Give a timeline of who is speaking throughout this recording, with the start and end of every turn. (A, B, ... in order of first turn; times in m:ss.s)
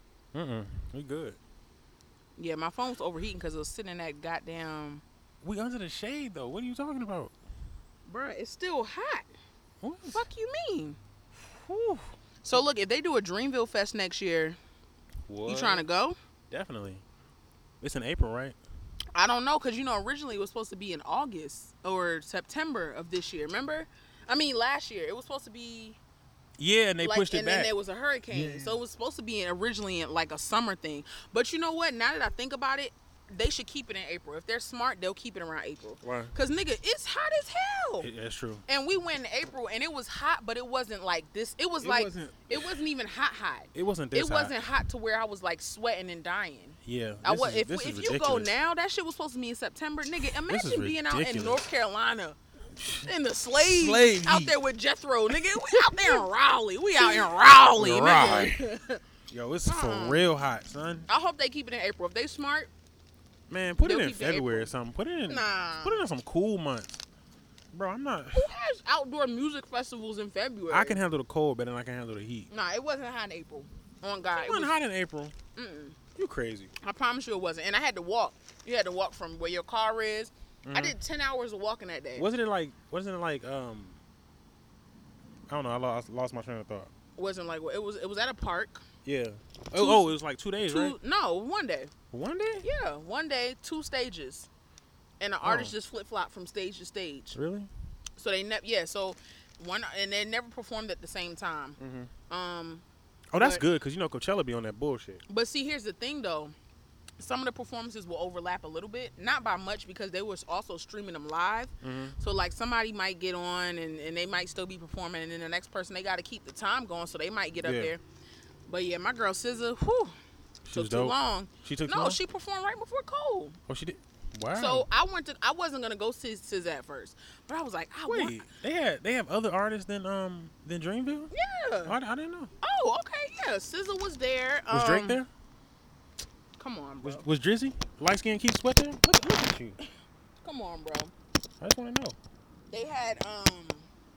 0:00.3-0:01.4 A
0:02.4-0:05.0 B
0:05.4-0:07.3 A
0:08.0-0:09.3 B
0:09.8-0:10.2 A
0:10.1-0:11.0 B
0:11.5-0:12.1 A
0:12.4-0:14.6 B
0:15.3-0:15.8 A
0:15.4-0:16.2 B
0:16.5-0:17.0 A
0:17.8-0:18.6 A
0:19.1-0:26.0 B
0:26.6-0:27.7 A
0:27.0-0:38.1 B
0:28.3-0:28.8 A
0:36.0-0:36.3 A
0:38.0-0:38.6 A
0:38.7-0:52.4 B
0:41.8-0:42.7 A
0:43.7-0:44.5 A
0:46.8-0:48.5 A
0:50.4-0:51.6 A
0:52.8-0:54.6 A
0:53.0-0:59.0 B
0:55.3-0:56.2 A
0:57.0-0:58.6 A
0:59.3-1:01.1 A
0:59.6-1:00.2 B
1:01.1-1:02.7 B
1:03.5-1:07.0 A
1:03.8-1:04.7 B
1:05.3-1:06.0 B
1:07.7-1:08.5 A
1:08.3-1:11.0 B
1:10.7-1:12.5 A
1:12.5-1:14.7 B
1:14.3-1:15.3 A
1:15.5-1:16.0 B
1:16.2-1:16.7 A
1:16.8-1:22.3 B
1:20.6-1:21.0 A
1:22.2-1:24.0 A
1:25.5-1:26.9 A
1:27.2-1:28.8 B
1:29.0-1:31.0 A
1:29.7-1:30.1 B
1:30.6-1:31.9 B
1:32.1-1:32.6 A
1:32.6-1:34.5 B
1:35.2-1:37.4 B
1:35.4-1:35.7 A
1:37.3-1:37.7 A
1:38.2-1:41.8 B
1:41.8-1:42.1 A
1:42.3-1:42.8 B
1:43.3-1:45.2 A
1:43.4-1:43.6 B
1:45.3-1:46.5 B
1:47.2-1:58.0 B
1:51.8-1:52.2 A
1:57.6-1:57.9 A
1:58.7-2:00.1 B
2:00.6-2:02.2 A
2:00.7-2:03.6 B
2:03.7-2:04.8 A
2:04.5-2:08.4 B
2:08.1-2:11.3 A
2:11.3-2:11.9 B
2:11.8-2:12.5 A
2:12.6-2:15.2 B
2:14.7-2:15.3 A
2:16.6-2:17.2 B
2:17.0-2:19.8 A
2:20.4-2:21.1 B
2:21.6-2:22.2 A
2:22.7-2:23.9 B